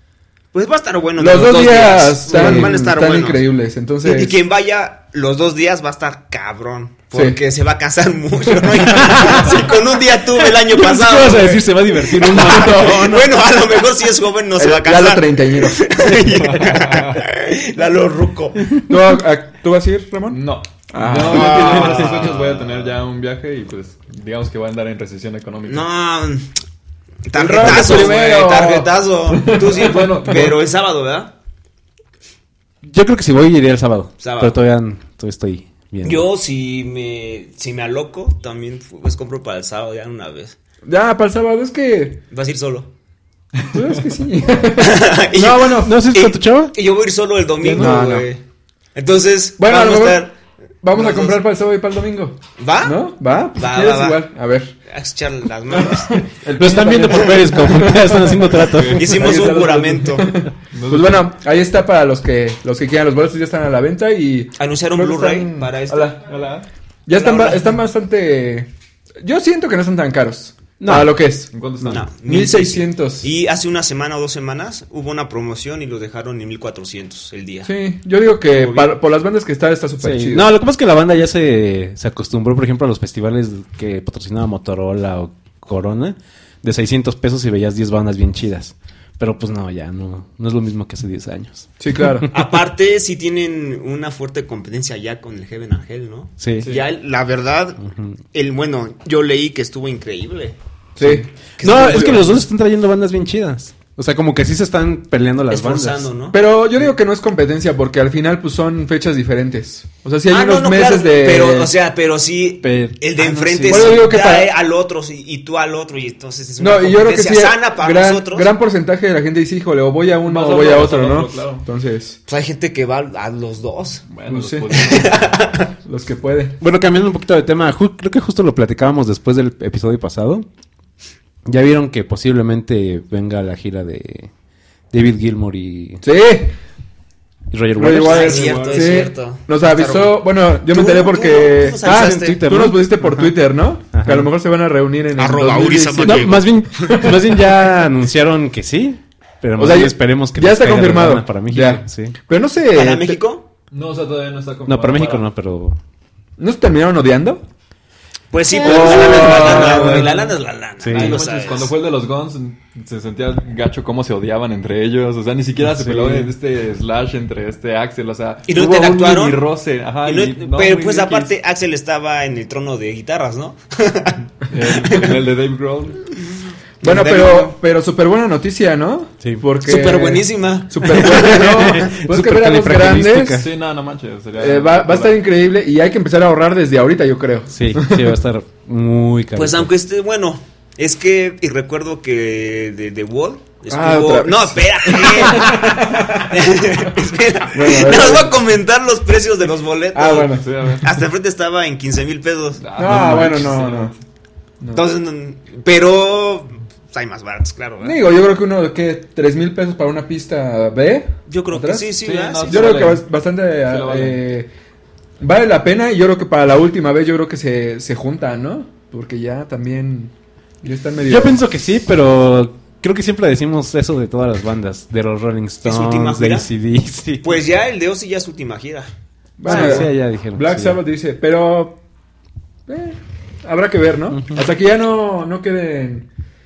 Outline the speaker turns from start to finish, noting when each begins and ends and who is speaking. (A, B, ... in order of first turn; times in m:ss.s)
0:00.5-0:03.4 A
0:01.2-0:04.4 B
0:04.0-0:11.6 A
0:07.1-0:07.4 B
0:08.9-0:09.5 C
0:10.6-0:13.2 C
0:12.2-0:18.6 A
0:12.2-0:13.1 B
0:14.6-0:15.8 B
0:16.4-0:17.2 D
0:18.8-0:21.9 B
0:20.3-0:25.8 D
0:21.3-0:22.6 A
0:25.7-0:26.5 A
0:27.3-0:31.3 A
0:27.3-0:30.5 B
0:29.6-0:30.6 D
0:32.8-0:36.2 C
0:34.2-0:34.6 A
0:36.0-0:40.6 A
0:40.8-0:42.2 B
0:42.3-0:42.9 A
0:43.7-0:46.0 B
0:44.8-0:48.4 A
0:45.8-0:46.7 C
0:47.6-0:47.9 D
0:47.7-0:48.3 B
0:49.0-0:50.3 A
0:49.6-0:50.3 B
0:50.8-0:54.8 B
0:51.0-0:51.4 A
0:52.6-0:53.0 A
0:53.6-0:54.2 A
0:54.9-0:56.3 A
0:55.7-1:06.2 B
0:56.6-0:59.2 C
0:58.6-0:59.4 D
0:58.9-1:00.3 A
1:00.7-1:01.3 D
1:04.6-1:06.2 A
1:06.2-1:06.7 D
1:07.1-1:08.7 B
1:07.1-1:07.6 A
1:09.2-1:13.3 B
1:10.8-1:11.1 C
1:11.5-1:12.0 D
1:11.9-1:17.7 A
1:17.6-1:20.5 B
1:18.5-1:18.9 A
1:20.0-1:32.5 C
1:31.8-1:32.3 B
1:32.3-1:37.8 A
1:36.4-1:36.7 C
1:37.8-1:38.2 C
1:38.3-1:42.4 A
1:41.0-1:42.2 B
1:41.6-1:46.1 C
1:45.5-1:46.4 A
1:46.3-1:51.7 B
1:50.3-1:58.5 A
1:52.6-1:54.1 C
1:53.7-1:54.5 B
1:56.6-2:02.2 B
2:00.2-2:01.6 D
2:02.3-2:04.0 A
2:04.1-2:05.3 D
2:04.3-2:05.2 B
2:04.8-2:05.7 A
2:05.8-2:06.6 B
2:06.6-2:10.5 C
2:11.5-2:14.3 C
2:14.9-2:16.0 C
2:16.0-2:16.6 B
2:17.5-2:18.3 C
2:17.8-2:27.2 B
2:18.0-2:22.4 A
2:18.0-2:19.0 D
2:21.8-2:23.3 C
2:23.9-2:24.3 C
2:25.2-2:27.0 A
2:26.0-2:32.2 C
2:29.6-2:33.2 B
2:32.7-2:33.5 A
2:33.7-2:35.3 D
2:34.7-2:35.8 C
2:36.4-2:37.4 B
2:38.3-2:41.7 A
2:38.5-2:40.1 B
2:38.7-2:40.0 C
2:39.2-2:40.0 D
2:40.8-2:41.2 C
2:40.9-2:51.3 D
2:45.7-2:46.3 C
2:48.5-2:49.4 A
2:50.0-2:54.2 A
2:54.5-2:56.0 D
2:56.8-2:57.6 A
2:56.8-3:03.4 B
2:59.6-3:01.9 A
3:01.0-3:03.5 C
3:03.4-3:05.2 D
3:04.4-3:08.2 B
3:07.5-3:09.7 C
3:09.4-3:22.9 A
3:13.7-3:16.4 B
3:17.5-3:18.4 B
3:19.9-3:20.5 B
3:20.4-3:20.8 D
3:22.6-3:24.0 D
3:22.8-3:23.9 B
3:24.7-3:28.0 A
3:27.8-3:31.9 B
3:31.3-3:32.9 A
3:32.0-3:33.0 D
3:32.4-3:34.5 B
3:33.6-3:34.2 D
3:35.2-3:41.4 B
3:41.1-3:47.4 C
3:45.6-3:46.5 A
3:47.2-3:48.9 A
3:49.4-3:51.8 B
3:49.4-3:49.8 A
3:49.4-3:50.8 C
3:52.7-3:56.1 B
3:54.1-3:54.4 C